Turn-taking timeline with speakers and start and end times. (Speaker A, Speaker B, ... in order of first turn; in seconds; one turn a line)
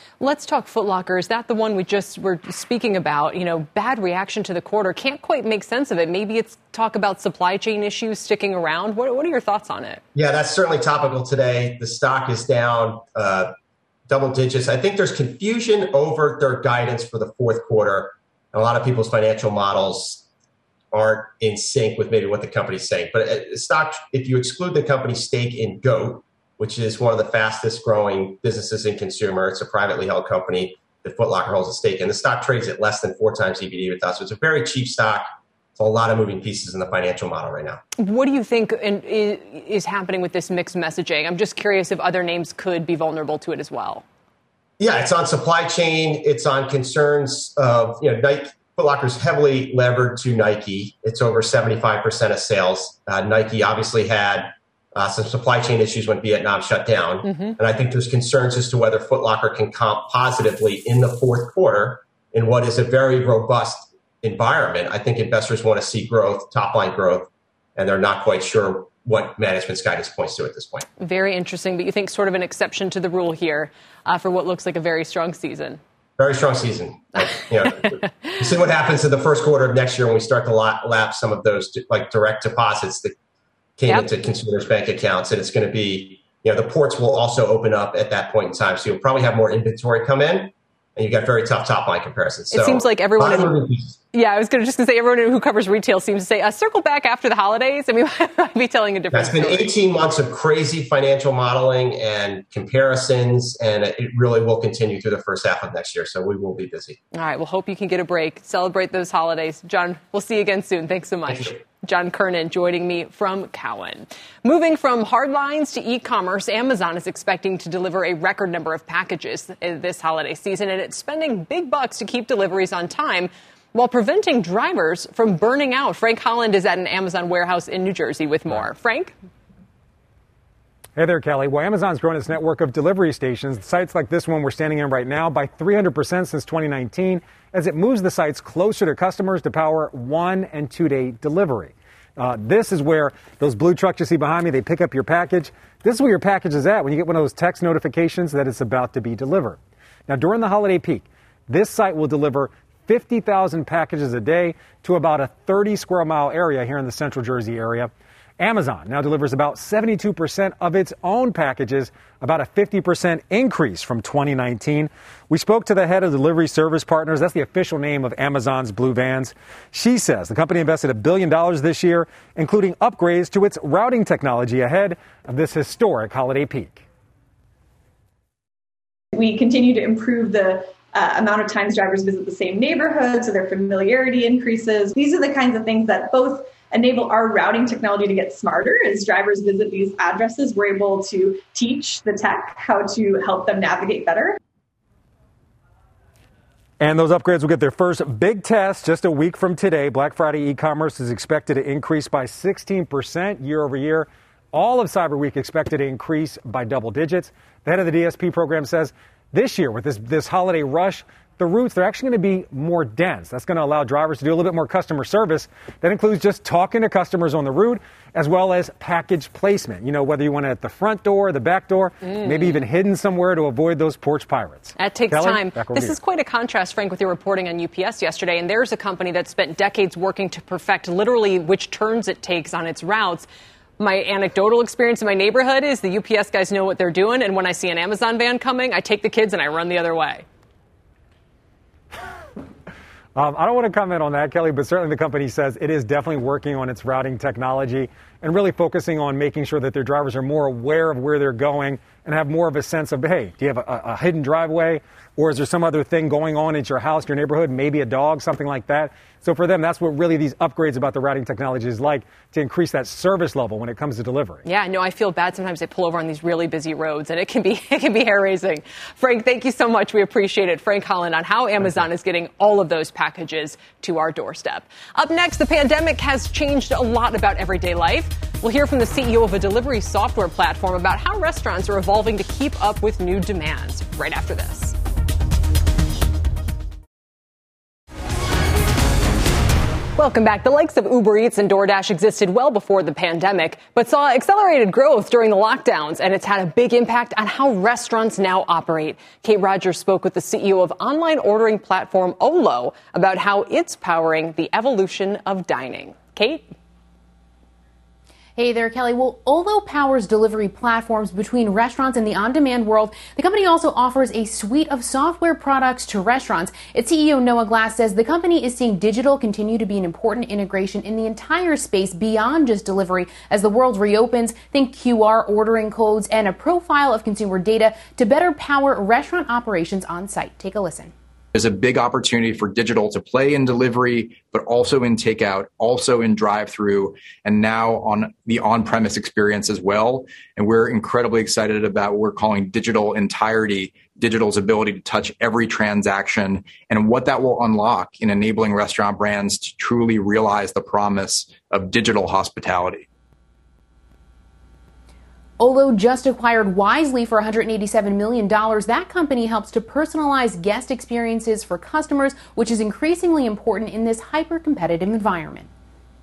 Speaker A: 0.2-10.0
Speaker B: 10.2-13.5
Speaker B: 14.1-20.2
Speaker B: 20.9-37.8
Speaker A: 38.0-44.0
Speaker B: 44.8-70.9
Speaker A: 57.2-57.6
Speaker A: 71.0-75.8
Speaker B: 76.2-83.1
Speaker A: 77.7-78.3
Speaker B: 83.8-94.0
Speaker A: 92.5-93.6
Speaker A: 94.1-99.8
Speaker B: 99.1-107.0
Speaker A: 107.1-129.1
Speaker C: 131.0-176.8
Speaker D: 179.1-194.4
Speaker C: 196.8-226.0
Speaker A: 222.1-222.6
Speaker A: 224.8-233.3
Speaker A: 233.8-240.2
Speaker C: 243.2-264.4
Speaker A: 264.4-284.8
Speaker A: 290.0-306.5
Speaker E: 308.4-330.9
Speaker F: 331.3-352.9
Speaker E: 355.4-365.5